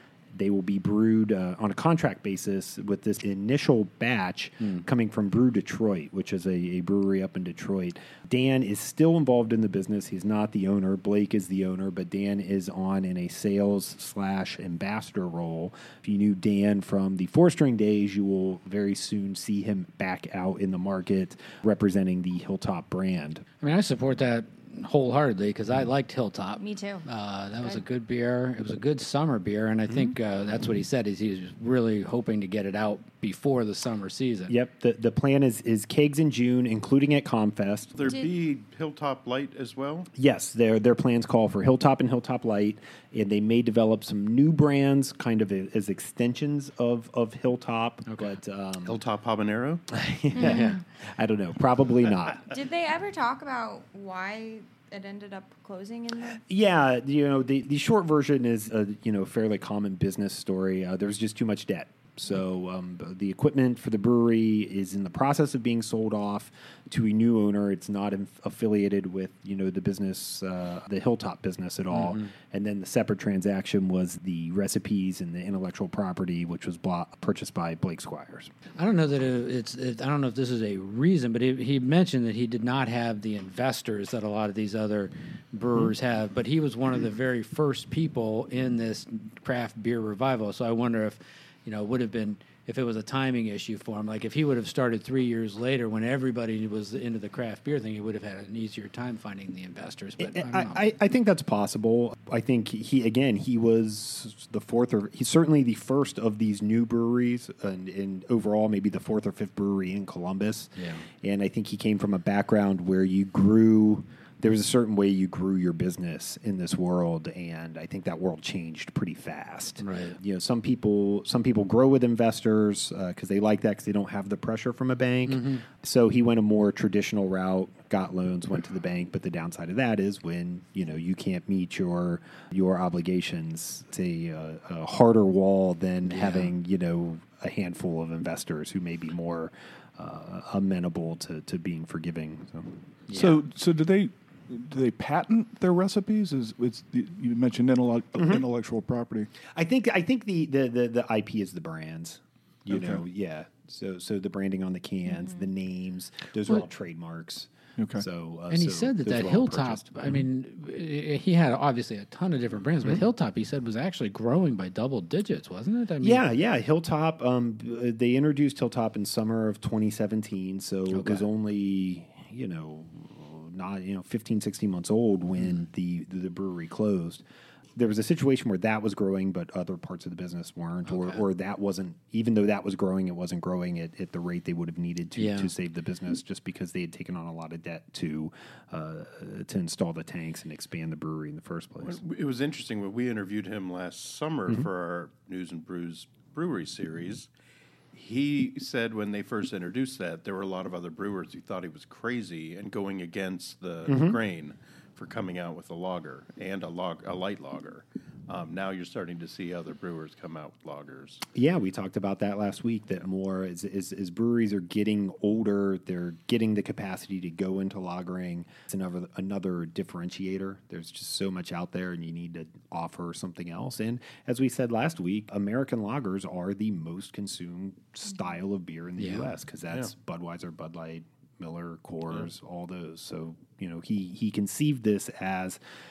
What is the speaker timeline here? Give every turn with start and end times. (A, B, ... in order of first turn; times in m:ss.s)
0:00.3-0:23.4 A
0:23.6-0:34.5 B
0:26.6-0:27.1 C
0:34.5-0:38.1 A
0:38.0-0:40.1 D
0:38.0-0:38.3 C
0:40.1-0:49.0 A
0:48.1-0:48.4 B
0:48.8-0:49.8 D
0:49.9-0:52.5 A
0:50.4-0:50.8 C
0:50.4-0:50.8 B
0:52.4-0:56.4 C
0:56.4-1:18.5 A
1:11.9-1:12.3 B
1:18.8-1:40.8 B
1:40.2-2:22.8 A
1:50.8-1:51.1 B
1:59.8-2:00.2 B
2:05.2-2:05.6 B
2:16.1-2:16.5 B
2:23.1-2:23.4 B
2:23.1-2:29.3 E
2:28.2-2:28.4 A
2:29.4-2:39.9 A
2:32.7-2:33.0 E
2:37.8-2:38.0 E
2:38.5-2:46.3 B
2:46.0-2:57.2 A
2:50.9-2:51.2 B
2:55.4-2:55.6 B
2:57.7-3:12.0 A
3:00.9-3:01.2 B
3:05.2-3:05.5 B
3:11.8-3:17.3 D
3:17.9-3:31.2 D
3:23.8-3:24.2 A
3:31.3-3:55.6 A
3:49.0-3:49.3 B